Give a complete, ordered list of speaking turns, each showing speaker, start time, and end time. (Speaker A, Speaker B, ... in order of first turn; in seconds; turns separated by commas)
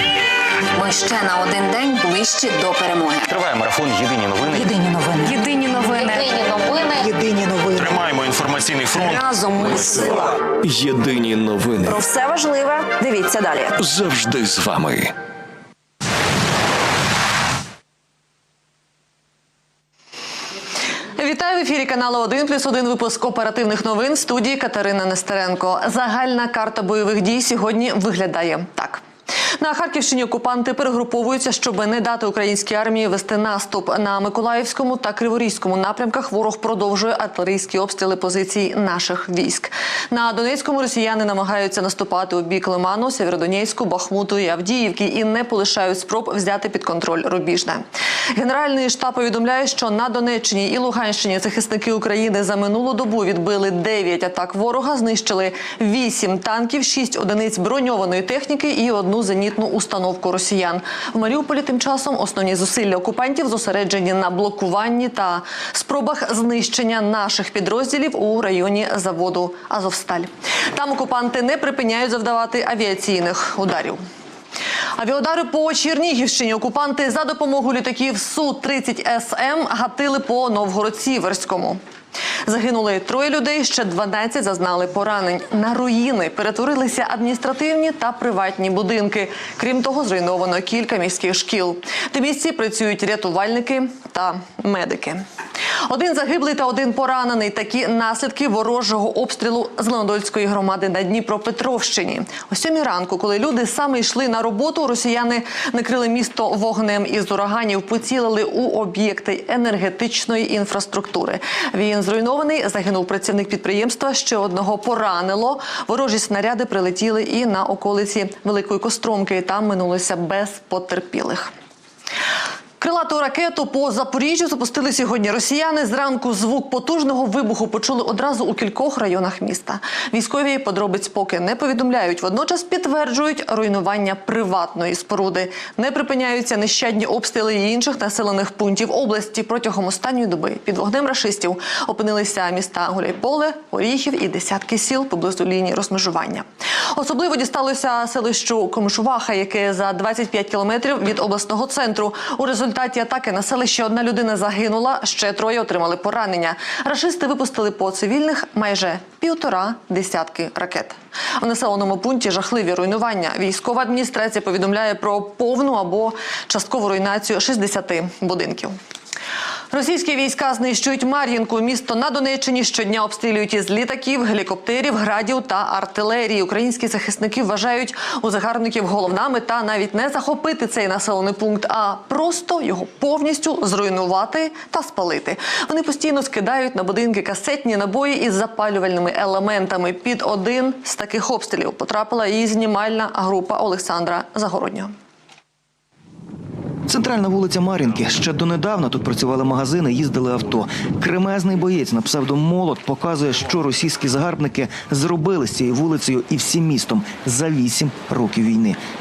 Speaker A: 0.8-3.3, Speaker B: 3.2-4.7, Speaker A: 4.5-8.0, Speaker B: 7.8-10.0, Speaker A: 9.0-10.3, Speaker C: 10.6-12.0, Speaker A: 11.9-13.7, Speaker C: 13.8-15.1, Speaker D: 21.2-29.0, Speaker D: 29.6-47.8, Speaker D: 48.3-74.0, Speaker D: 75.0-81.8, Speaker D: 82.5-95.2, Speaker D: 95.9-121.5, Speaker D: 122.8-168.8, Speaker D: 169.7-194.9, Speaker E: 196.9-208.8